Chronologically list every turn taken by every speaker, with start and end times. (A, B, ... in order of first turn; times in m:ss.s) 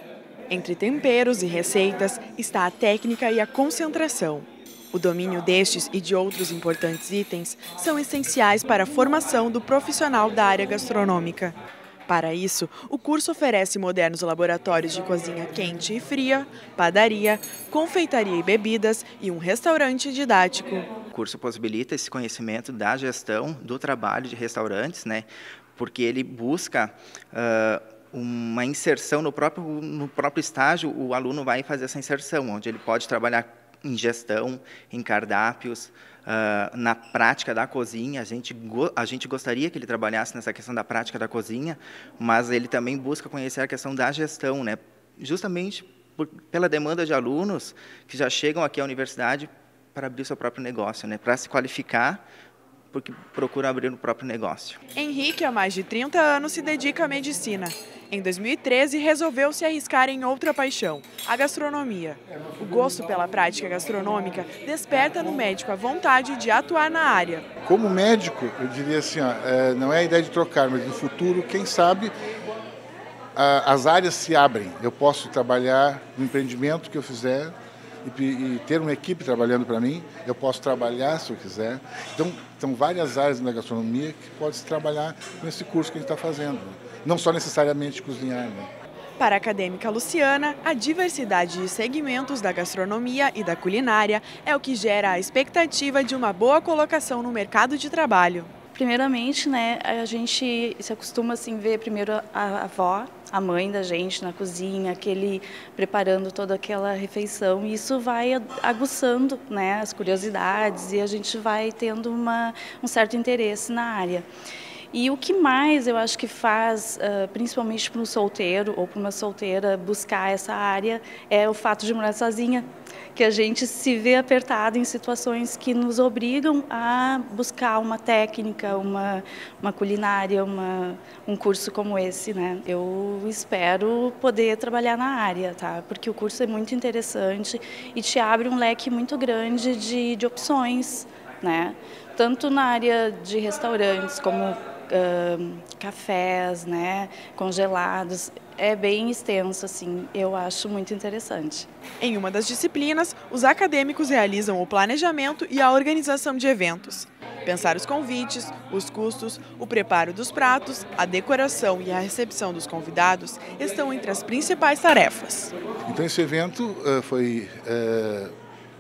0:00.5-0:11.6 A
0:12.1-0:20.9 A
0:21.1-0:52.2 B
0:52.9-0:54.8 B
0:55.0-1:07.4 A
1:07.6-1:12.1 C
1:13.4-1:28.7 C
1:29.2-1:38.5 A
1:38.7-1:54.3 D
1:54.9-2:31.7 D
2:32.0-2:45.5 A
2:45.9-2:48.3 C